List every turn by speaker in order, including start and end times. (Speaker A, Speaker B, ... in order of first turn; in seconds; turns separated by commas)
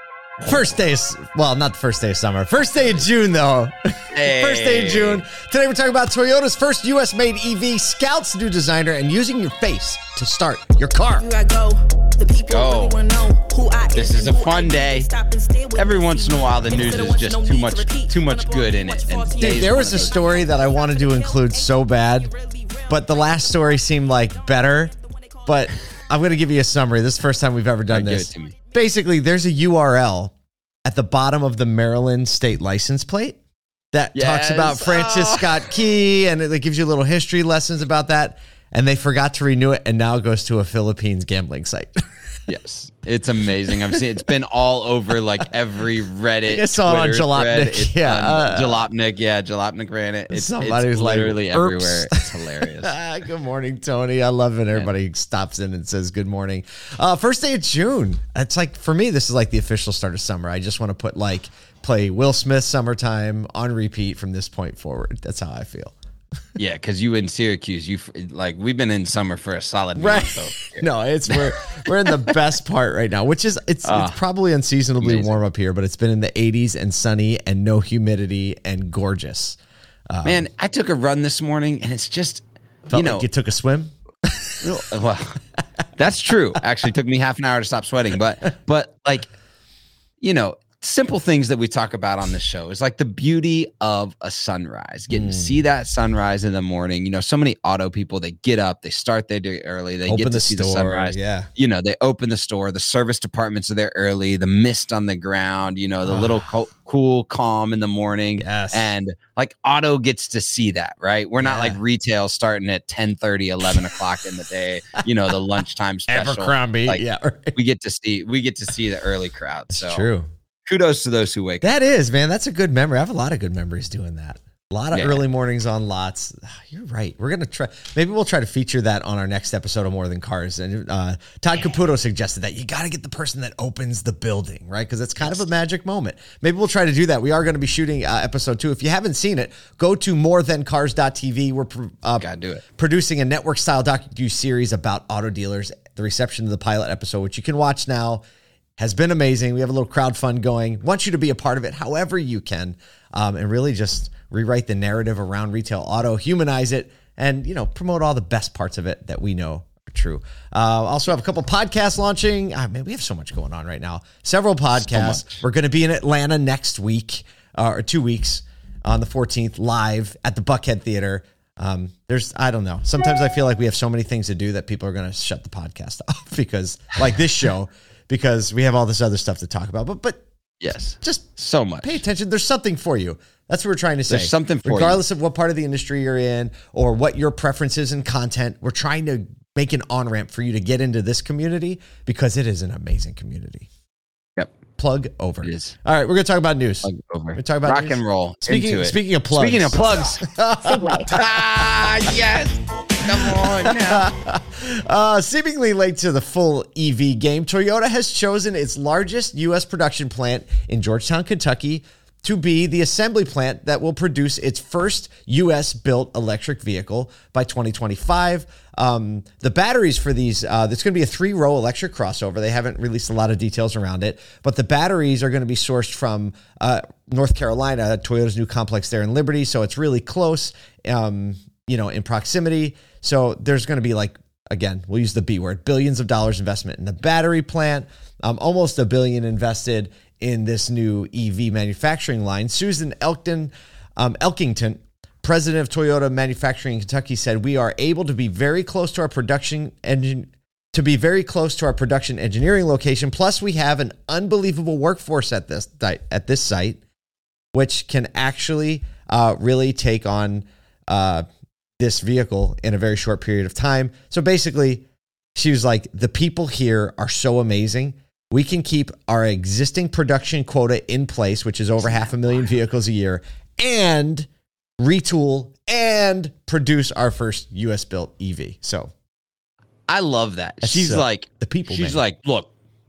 Speaker A: 0.4-11.3, Speaker B: 4.1-5.2, Speaker C: 11.2-21.7, Speaker B: 12.5-13.0, Speaker B: 13.9-15.1, Speaker B: 15.7-20.2, Speaker A: 19.4-22.3, Speaker C: 22.2-23.0, Speaker A: 22.9-24.9, Speaker C: 25.1-25.4, Speaker A: 25.4-30.3, Speaker B: 27.9-28.6, Speaker A: 30.8-33.4, Speaker A: 33.9-42.0, Speaker B: 34.1-35.7, Speaker B: 42.5-52.9, Speaker A: 43.7-44.1, Speaker A: 46.5-48.9, Speaker A: 50.3-65.9, Speaker B: 66.6-71.6, Speaker A: 69.9-79.6, Speaker B: 73.8-74.2, Speaker B: 75.0-75.3, Speaker A: 80.1-80.5, Speaker B: 80.2-83.2, Speaker A: 82.9-84.6, Speaker B: 84.6-85.4, Speaker B: 86.0-89.3, Speaker B: 90.2-117.0, Speaker A: 95.1-95.6, Speaker A: 100.0-101.5, Speaker A: 106.0-106.4, Speaker A: 108.4-108.9, Speaker A: 111.4-111.8, Speaker A: 113.7-114.0, Speaker A: 116.1-117.6, Speaker B: 117.5-120.1, Speaker A: 119.7-120.3, Speaker B: 120.7-121.7, Speaker A: 121.6-148.2, Speaker B: 124.9-125.2, Speaker B: 142.2-142.6, Speaker A: 148.8-193.7, Speaker B: 164.8-165.3, Speaker B: 180.6-182.0, Speaker B: 184.1-185.0, Speaker A: 194.8-201.5, Speaker B: 195.4-195.7, Speaker B: 196.8-200.2, Speaker C: 200.7-201.1, Speaker B: 201.1-204.1, Speaker A: 203.1-256.8, Speaker A: 257.5-261.2, Speaker A: 261.8-264.8, Speaker A: 265.3-274.3, Speaker A: 274.8-278.9, Speaker B: 279.9-282.5, Speaker A: 280.6-282.0